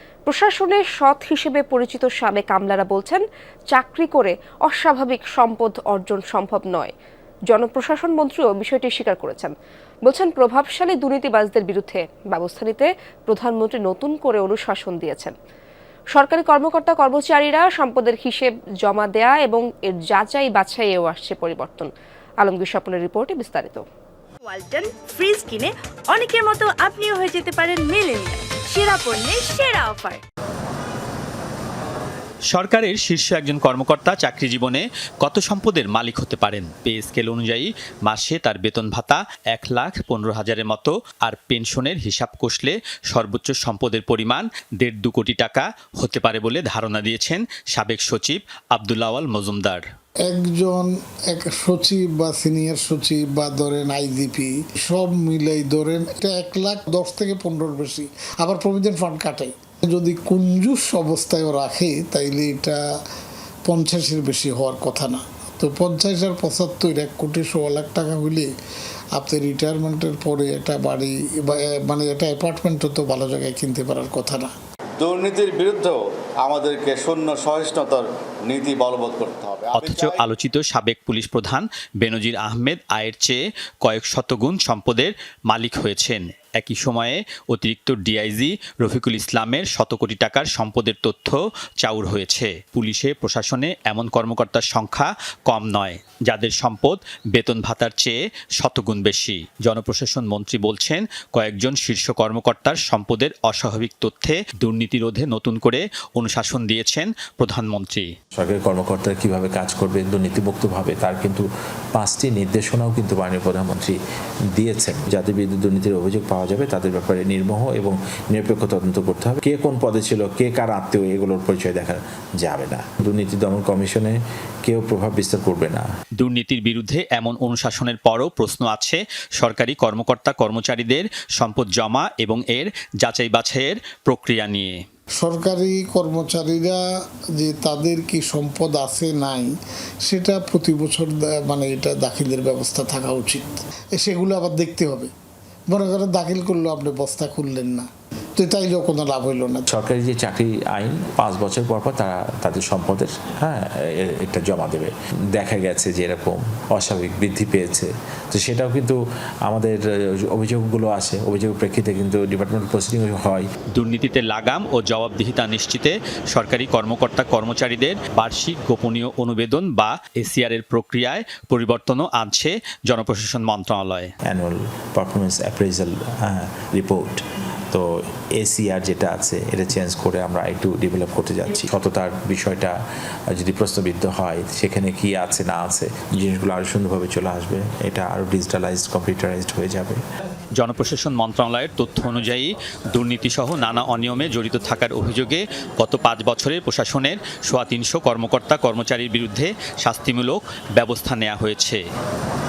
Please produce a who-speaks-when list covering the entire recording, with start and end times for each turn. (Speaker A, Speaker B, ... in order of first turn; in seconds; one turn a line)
Speaker A: 0.2-6.9
Speaker A: 7.5-9.5
Speaker A: 10.1-15.3
Speaker A: 16.1-21.9
Speaker A: 22.4-23.8
Speaker B: 24.5-30.2
Speaker C: 32.5-49.8
Speaker D: 50.2-62.8
Speaker D: 63.6-68.5
Speaker D: 69.1-74.5
Speaker E: 75.0-80.2
Speaker C: 79.7-108.1
Speaker F: 108.4-111.4
Speaker F: 111.9-113.9
Speaker F: 114.6-125.8
Speaker C: 126.2-134.8
Speaker D: 135.2-136.8
Speaker D: 137.4-139.5
Speaker D: 140.1-145.1
Speaker D: 145.7-149.7
Speaker F: 149.7-163.4
Speaker C: 163.7-174.1
Speaker F: 174.3-182.8
Speaker F: 183.3-190.0
Speaker C: 190.6-201.8